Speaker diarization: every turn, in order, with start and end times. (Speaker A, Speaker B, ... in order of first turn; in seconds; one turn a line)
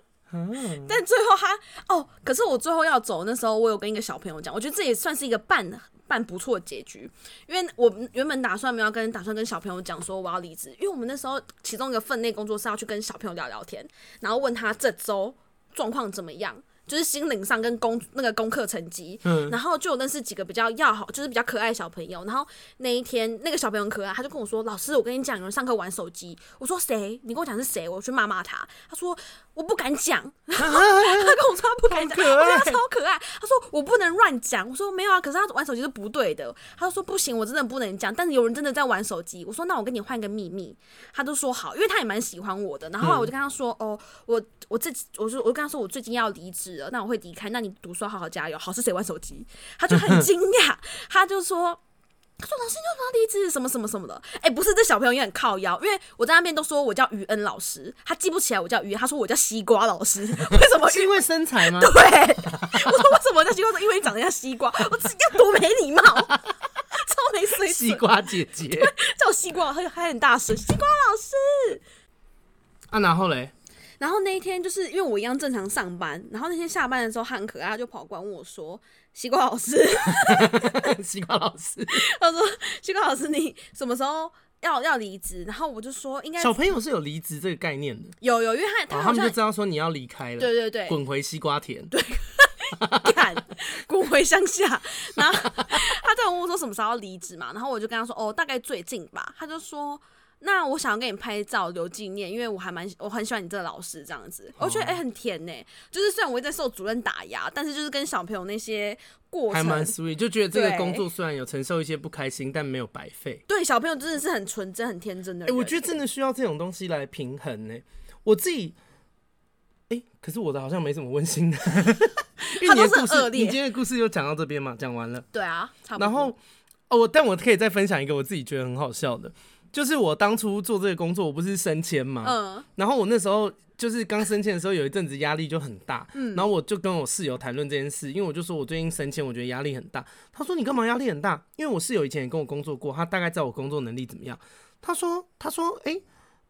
Speaker A: 0.3-0.9
Speaker B: 0.8-51.8
Speaker A: 19.2-19.6
Speaker A: 30.6-32.8
Speaker A: 43.0-43.3
Speaker A: 50.0-50.2
Speaker B: 52.4-66.4
Speaker A: 60.5-61.9
Speaker A: 62.5-62.8
Speaker B: 66.9-71.8
Speaker A: 67.6-68.9
Speaker A: 72.9-73.5
Speaker B: 74.0-80.9
Speaker A: 80.1-82.0
Speaker B: 81.9-86.6
Speaker A: 86.4-88.2
Speaker B: 88.2-89.4
Speaker A: 88.9-91.9
Speaker B: 90.4-91.0
Speaker B: 91.9-109.9
Speaker A: 92.8-93.3
Speaker A: 104.6-105.0
Speaker A: 109.5-113.4
Speaker B: 110.5-111.0
Speaker B: 113.5-115.8
Speaker A: 115.5-118.8
Speaker A: 119.9-125.3
Speaker B: 122.5-123.6
Speaker B: 125.3-126.3
Speaker A: 126.0-126.4
Speaker A: 126.9-146.0
Speaker B: 132.2-132.7
Speaker B: 136.1-136.4